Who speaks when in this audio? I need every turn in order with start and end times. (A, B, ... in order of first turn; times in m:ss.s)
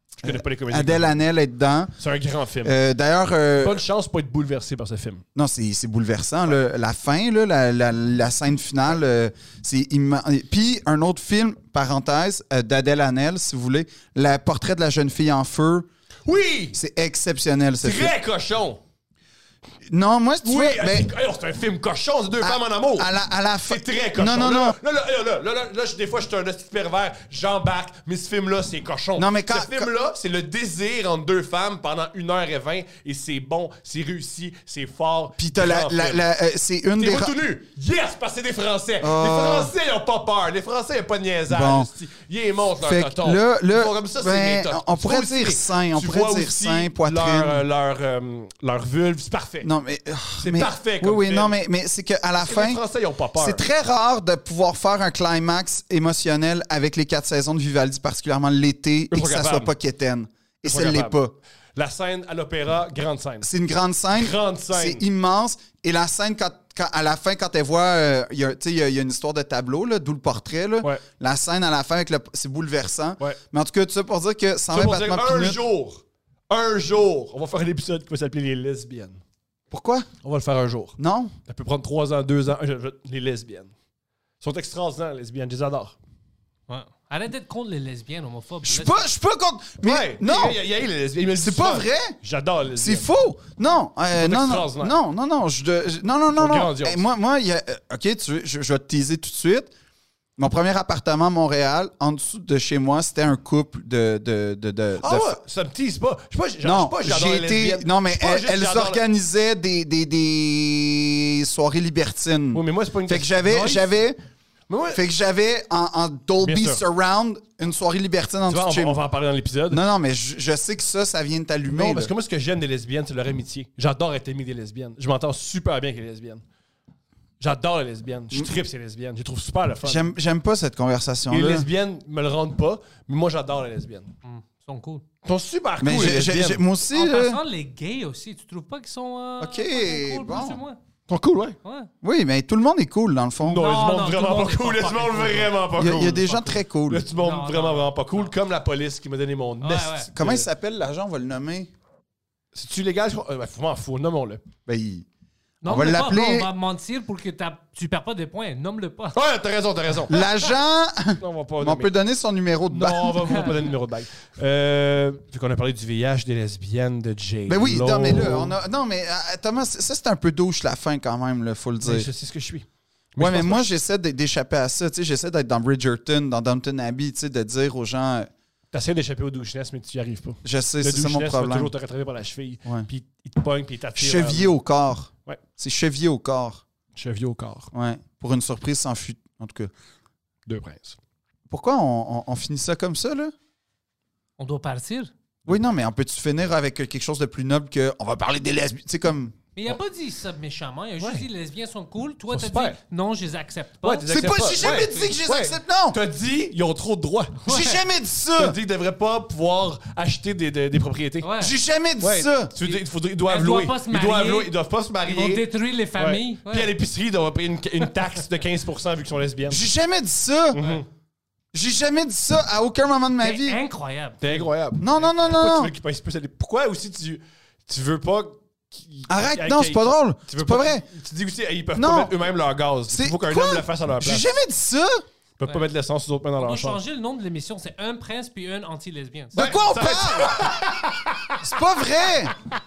0:00.2-0:01.2 A
0:00.2-0:01.9 B
0:02.0-0:02.8 A
0:02.6-0:03.8 B
0:03.6-0:05.2 A
0:05.3-0:15.9 B
0:16.2-0:16.8 A
0:16.7-0:18.1 B
0:17.8-0:18.8 A
0:19.9-0:21.1 B
0:20.4-0:23.1 A
0:22.4-0:24.8 B
0:23.7-0:36.2 A
0:29.2-0:29.9 B
0:35.4-0:37.3 B
0:36.9-0:49.7 A
0:39.0-0:39.7 B
0:41.5-0:41.9 B
0:42.8-0:47.6 B
0:49.6-0:52.8 B
0:50.4-0:51.6 A
0:52.4-0:53.6 A
0:53.4-1:01.3 B
0:59.1-0:59.7 A
1:00.6-1:01.2 A
1:01.8-1:03.5 A
1:03.4-1:15.6 B
1:04.1-1:05.0 A
1:14.7-1:19.2 A
1:19.7-1:20.1 B
1:20.2-1:21.0 A
1:21.0-1:21.3 B
1:21.5-1:23.7 A
1:24.4-1:26.0 A
1:26.7-1:29.1 C
1:28.6-1:30.6 B
1:29.8-1:33.1 A
1:31.4-1:32.2 B
1:32.8-1:39.7 B
1:34.1-1:35.0 A
1:36.3-1:37.0 A
1:40.4-1:45.4 B
1:45.0-1:49.0 A
1:46.6-1:54.2 B
1:52.5-1:53.8 A
1:53.5-1:53.8 C
1:54.7-1:55.0 A
1:54.9-1:59.0 B
1:56.4-1:56.8 A
1:58.5-1:59.8 A
1:59.7-2:02.1 B
2:01.7-2:06.4 A
2:07.4-2:10.1 A
2:09.8-2:11.7 B
2:11.3-2:14.1 A
2:14.2-2:15.0 C
2:15.2-2:16.6 A
2:15.8-2:17.4 B
2:16.9-2:20.8 C
2:19.4-2:20.6 B
2:21.1-2:21.6 A
2:21.6-2:21.9 C
2:22.0-2:23.7 B
2:23.4-2:30.5 A
2:23.5-2:25.5 C
2:25.8-2:27.0 B
2:27.1-2:28.3 C
2:29.6-2:30.1 C
2:30.1-2:31.7 B
2:32.5-2:34.4 A
2:34.6-2:35.1 B
2:35.6-2:39.2 C
2:35.6-2:36.5 B
2:39.1-2:40.2 A
2:40.1-2:43.3 B
2:41.2-2:41.9 A
2:42.7-2:48.5 A
2:47.5-2:52.1 B
2:51.8-2:53.7 A
2:53.2-2:58.3 B
2:58.7-3:04.5 A
3:00.4-3:01.7 B
3:04.0-3:06.6 B
3:07.0-3:07.7 A
3:07.7-3:09.7 B
3:10.4-3:11.0 A
3:11.5-3:13.3 B
3:14.4-3:15.1 C
3:15.4-3:19.4 B
3:19.6-3:24.9 C
3:21.0-3:21.3 A
3:22.3-3:22.8 A
3:23.8-3:27.4 A
3:24.1-3:26.0 B
3:27.4-3:27.8 C
3:27.5-3:28.6 B
3:28.4-3:31.3 A
3:31.2-3:31.5 C
3:31.4-3:32.5 B
3:32.0-3:35.4 A
3:32.6-3:34.5 C
3:35.1-3:36.7 C
3:36.0-3:39.6 A
3:39.5-3:40.6 B
3:40.5-3:40.8 A
3:41.5-3:43.6 B
3:43.2-3:44.5 C
3:44.2-3:54.3 A
3:44.8-3:45.7 B
3:49.1-3:50.8 B
3:51.8-3:52.2 B
3:52.9-3:55.0 B
3:55.4-3:56.8 A
3:56.4-3:59.4 C
3:59.3-4:00.8 B
3:59.3-4:01.5 A
4:01.4-4:02.3 B